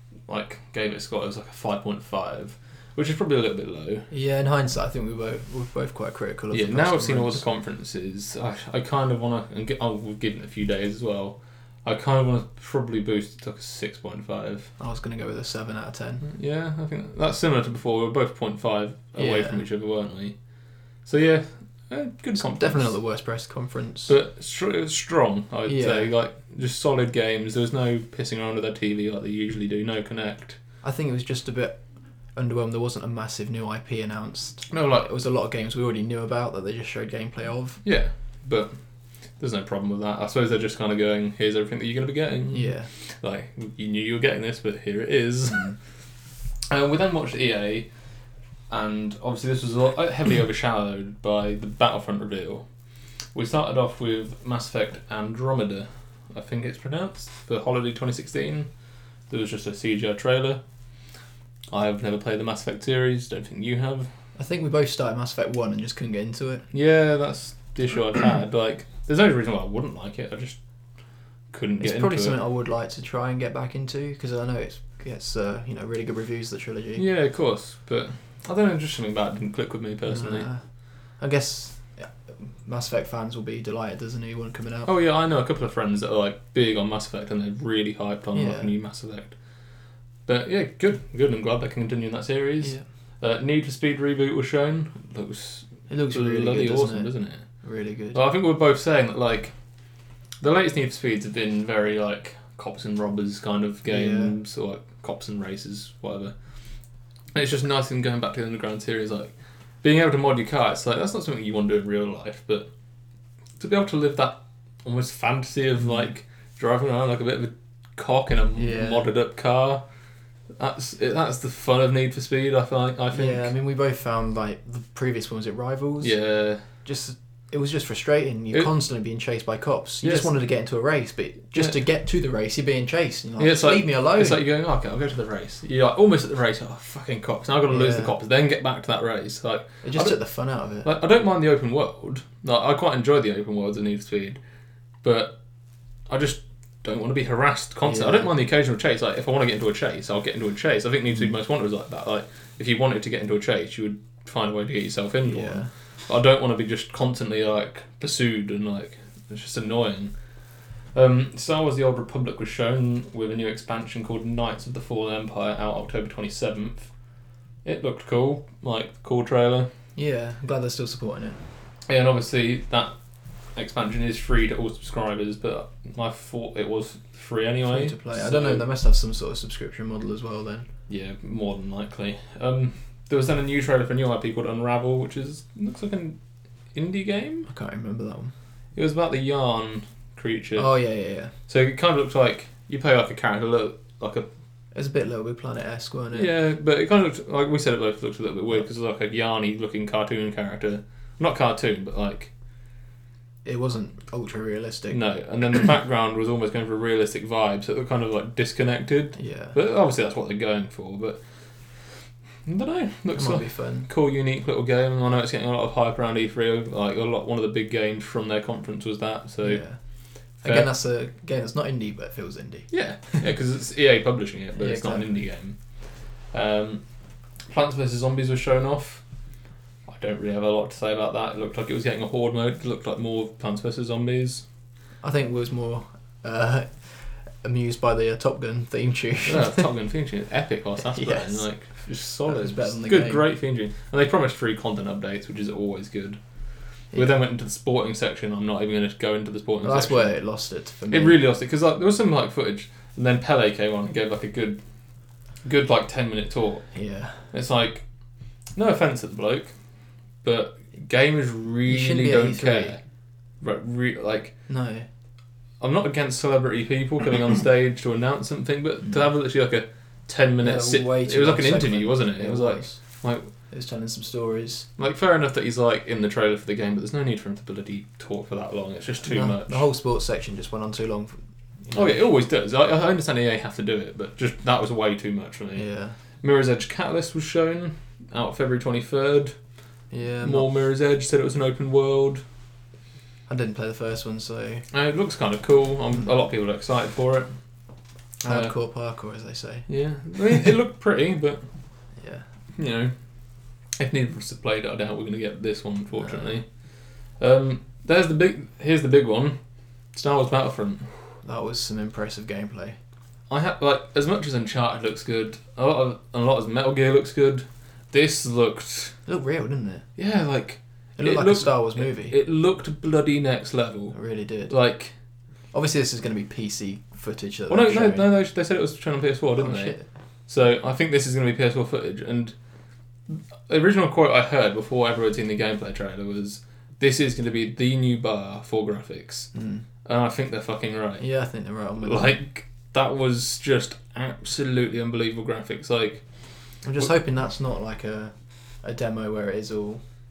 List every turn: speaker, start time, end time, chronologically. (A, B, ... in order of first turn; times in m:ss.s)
0:00.3-0:04.1 A
0:04.1-0:07.4 B
0:06.5-0:14.7 A
0:14.8-0:16.2 B
0:16.2-0:20.4 A
0:19.1-0:19.6 B
0:21.0-0:23.0 A
0:22.4-0:24.1 B
0:24.1-0:30.6 A
0:25.6-0:26.1 B
0:30.8-0:31.8 B
0:32.3-0:37.8 B
0:34.7-0:35.1 A
0:37.8-0:38.7 A
0:39.4-0:45.7 A
0:42.5-0:42.9 B
0:45.5-0:45.8 B
0:46.7-0:47.9 A
0:48.7-0:52.7 A
0:53.3-0:58.7 A
0:59.3-1:00.6 A
1:01.7-1:04.1 A
1:04.4-1:06.7 B
1:06.7-1:10.6 A
1:11.5-1:12.4 A
1:11.8-1:17.0 B
1:17.0-1:20.5 A
1:20.0-1:20.6 B
1:21.2-1:24.9 B
1:24.8-1:29.4 A
1:28.3-1:28.7 B
1:30.2-1:37.4 A
1:35.9-1:38.2 B
1:38.1-1:39.5 A
1:40.4-1:46.3 A
1:43.9-1:44.3 B
1:47.3-1:52.7 A
1:53.6-1:59.8 A
1:58.6-1:59.1 B
2:00.6-2:03.5 A
2:03.1-2:06.2 B
2:06.0-2:06.6 A
2:06.8-2:14.4 B
2:10.0-2:10.3 A
2:13.4-2:20.2 A
2:17.7-2:18.1 B
2:19.8-2:20.9 B
2:20.8-2:24.4 A
2:25.0-2:25.4 A
2:26.1-2:40.1 A
2:27.8-2:28.3 B
2:35.2-2:35.7 B
2:40.9-2:46.9 A
2:47.6-2:49.7 A
2:50.0-2:51.4 B
2:51.9-2:52.9 A
2:53.5-2:58.6 A
2:57.7-3:00.7 B
3:00.9-3:06.2 A
3:06.7-3:07.5 A
3:07.4-3:08.3 B
3:08.7-3:10.7 A
3:10.6-3:11.3 B
3:11.5-3:14.3 A
3:14.7-3:16.3 B
3:16.1-3:22.3 A
3:23.4-3:25.0 B
3:24.9-3:31.2 A
3:29.2-3:29.6 B
3:32.4-3:39.6 A
3:33.1-3:33.9 B
3:39.4-3:39.8 B
3:40.4-3:40.7 A
3:40.4-3:43.3 B
3:42.7-3:45.6 A
3:44.6-3:45.2 B
3:46.3-3:46.8 A
3:47.5-3:49.0 A
3:49.8-3:54.4 A
3:55.0-3:59.7 B
3:59.2-4:06.2 A
4:00.8-4:01.5 B
4:02.2-4:03.2 B
4:06.9-4:10.2 A
4:09.6-4:11.2 B
4:10.9-4:14.6 A
4:15.4-4:16.7 A
4:16.7-4:17.3 B
4:17.3-4:17.8 A
4:18.5-4:19.5 A
4:20.2-4:22.8 A
4:21.6-4:22.8 B
4:23.4-4:24.3 A
4:24.5-4:24.9 B
4:25.6-4:33.3 A
4:30.4-4:32.8 B
4:33.5-4:34.7 B
4:34.8-4:39.6 A
4:39.0-4:42.0 B
4:41.7-4:45.7 A
4:45.5-4:46.0 B
4:46.2-4:49.3 A
4:49.9-4:50.5 B
4:50.2-4:52.2 A
4:53.3-4:54.6 B
4:54.7-4:57.3 A
4:58.2-4:58.5 A
4:58.2-4:59.7 B
4:59.7-5:01.4 A
5:02.0-5:02.2 B
5:02.6-5:02.9 A
5:03.8-5:06.4 A
5:06.0-5:06.4 B
5:07.2-5:09.4 A
5:09.9-5:10.9 A
5:11.2-5:12.8 B
5:13.3-5:19.0 A
5:19.0-5:19.9 B
5:20.0-5:24.0 A
5:21.0-5:22.1 B
5:23.9-5:24.5 B
5:24.5-5:24.9 A
5:25.5-5:28.1 B
5:27.5-5:29.8 A
5:29.4-5:29.8 B
5:30.3-5:32.3 A
5:33.1-5:39.3 A
5:39.3-5:39.6 B
5:39.8-5:41.0 A
5:41.0-5:42.2 B
5:41.8-5:46.0 A
5:46.6-5:49.8 B